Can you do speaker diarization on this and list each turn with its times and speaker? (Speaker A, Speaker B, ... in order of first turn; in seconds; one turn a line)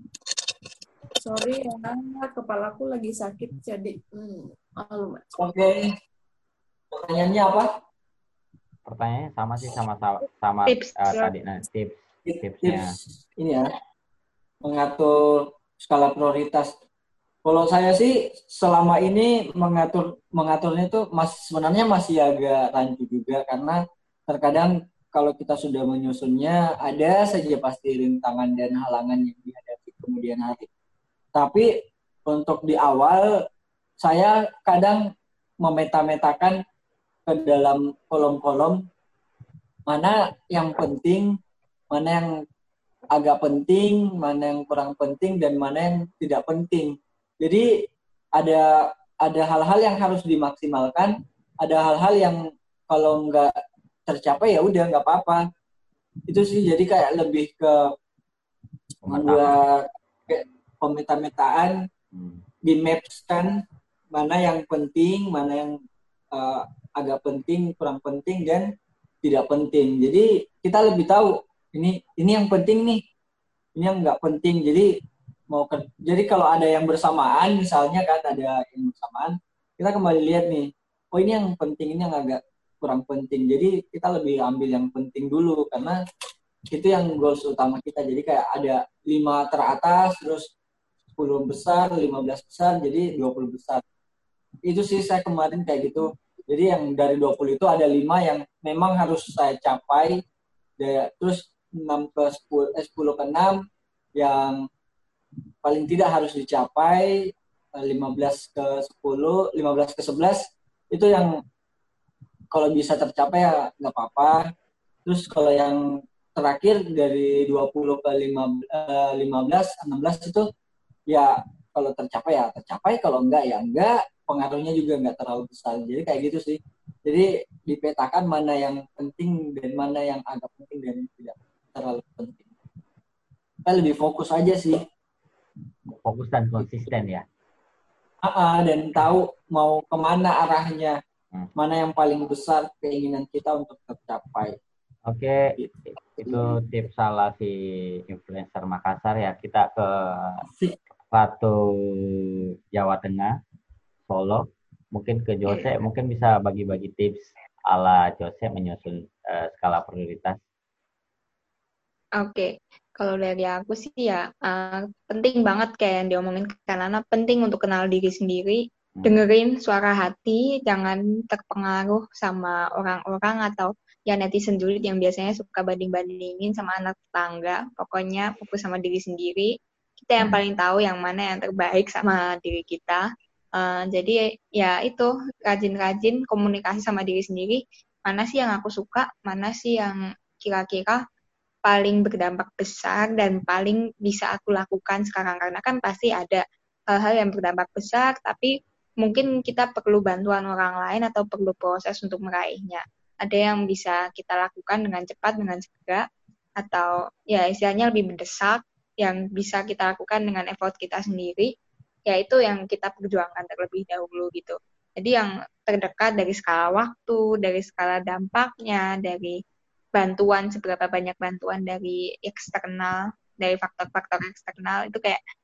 Speaker A: 1.2-5.2
Speaker B: 5.3-5.9
Speaker B: 6.9-7.7
Speaker C: 8.8-12.9
Speaker D: 10.7-11.3
Speaker B: 12.2-13.7
Speaker B: 14.6-16.7
Speaker B: 17.4-30.7
Speaker B: 31.3-33.4
Speaker B: 34.0-36.6
Speaker B: 37.2-38.9
Speaker B: 39.9-41.4
Speaker B: 41.9-42.4
Speaker B: 43.1-47.7
Speaker B: 48.4-53.5
Speaker B: 54.1-55.4
Speaker B: 56.3-57.9
Speaker C: 59.0-59.5
Speaker B: 59.0-61.9
Speaker C: 62.1-62.4
Speaker B: 62.6-65.8
Speaker B: 66.3-68.7
Speaker B: 69.2-73.0
Speaker B: 73.8-74.9
Speaker B: 75.5-86.0
Speaker B: 86.7-90.5
Speaker B: 91.2-93.8
Speaker B: 94.7-100.2
Speaker B: 100.8-103.6
Speaker B: 104.2-104.7
Speaker B: 105.6-111.4
Speaker B: 112.5-114.5
Speaker B: 115.0-115.8
Speaker B: 116.3-120.5
Speaker B: 121.1-132.5
Speaker B: 133.6-134.8
Speaker C: 136.0-137.2
Speaker B: 138.2-141.0
Speaker B: 141.6-144.6
Speaker C: 145.1-150.4
Speaker B: 145.6-146.5
Speaker C: 151.1-152.2
Speaker C: 152.7-153.3
Speaker C: 154.1-160.4
Speaker D: 162.2-183.0
Speaker D: 183.6-191.0
Speaker D: 191.7-206.0
Speaker D: 206.6-211.5
Speaker D: 212.1-219.4
Speaker D: 219.9-225.2